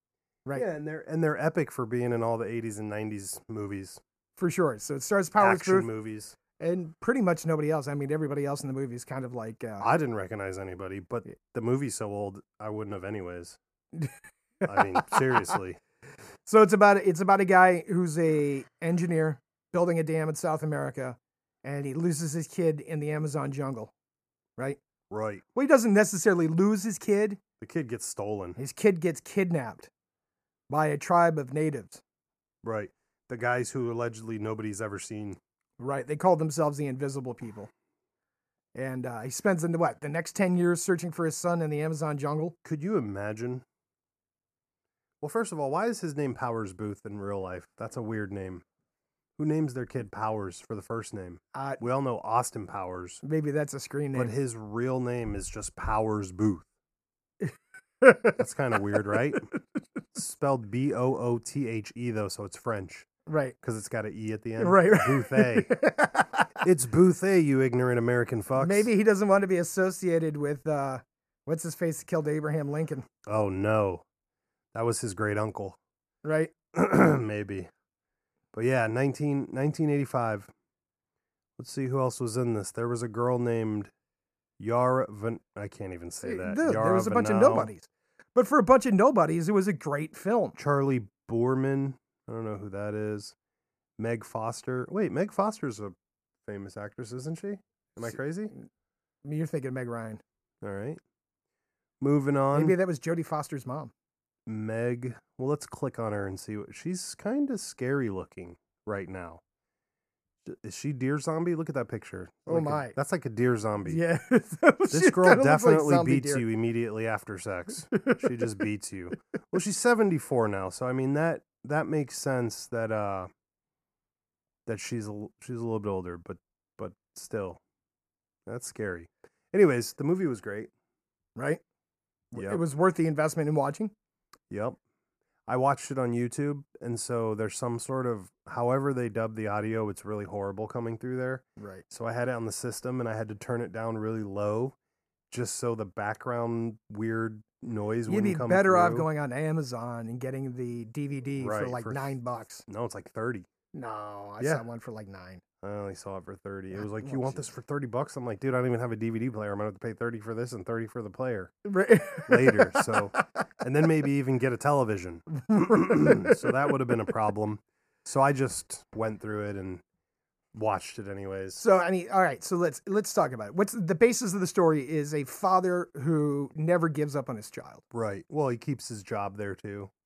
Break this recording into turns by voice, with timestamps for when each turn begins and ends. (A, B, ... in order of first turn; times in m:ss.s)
0:00.6-0:04.0 A
0:04.4-0:05.9 B
0:05.4-0:06.4 A
0:06.6-0:09.9 B
0:09.8-0:13.6 A
0:14.6-0:15.8 A
0:14.6-0:15.6 B
0:16.5-0:23.9 B
0:25.1-0:25.4 A
0:25.5-0:27.4 B
0:27.6-0:28.6 A
0:28.6-0:29.9 B
0:30.7-0:32.0 B
0:32.6-0:35.4 A
0:35.8-0:37.7 B
0:38.8-0:42.6 B
0:42.6-0:43.6 A
0:45.2-0:48.6 A
0:49.4-0:53.2 A
0:51.5-0:51.8 B
0:53.2-0:54.4 B
0:54.2-0:56.7 A
0:57.4-0:59.6 B
0:58.4-0:59.4 A
1:00.2-1:03.1 A
1:03.3-1:03.6 B
1:03.6-1:05.7 A
1:04.6-1:06.6 B
1:06.6-1:08.9 A
1:08.6-1:13.1 B
1:13.3-1:14.0 A
1:14.7-1:15.8 A
1:16.2-1:16.5 B
1:16.7-1:17.7 A
1:18.5-1:20.5 A
1:21.6-1:23.9 A
1:24.6-1:27.7 A
1:26.2-1:30.6 B
1:30.6-1:33.3 A
1:34.0-1:36.0 A
1:36.5-1:38.5 A
1:39.2-1:40.2 B
1:40.6-1:41.0 A
1:42.0-1:42.8 A
1:42.5-1:43.9 B
1:44.5-1:49.4 A
1:50.4-1:54.0 A
1:52.5-1:52.9 B
1:53.8-1:56.4 B
1:54.9-2:03.3 A
1:57.9-1:58.6 B
2:04.7-2:07.6 A
2:08.5-2:10.7 A
2:11.4-2:11.6 B
2:12.3-2:13.9 B
2:12.4-2:12.6 A
2:14.5-2:14.8 A
2:15.5-2:24.8 A
2:21.6-2:21.8 B
2:25.3-2:29.1 A
2:28.1-2:32.6 B
2:31.4-2:33.5 A
2:33.7-2:35.4 B
2:35.6-2:41.5 A
2:36.8-2:37.4 B
2:41.6-2:43.2 B
2:42.2-2:49.8 A
2:45.4-2:46.7 B
2:50.5-2:51.6 A
2:51.6-2:57.8 B
2:57.9-2:59.9 A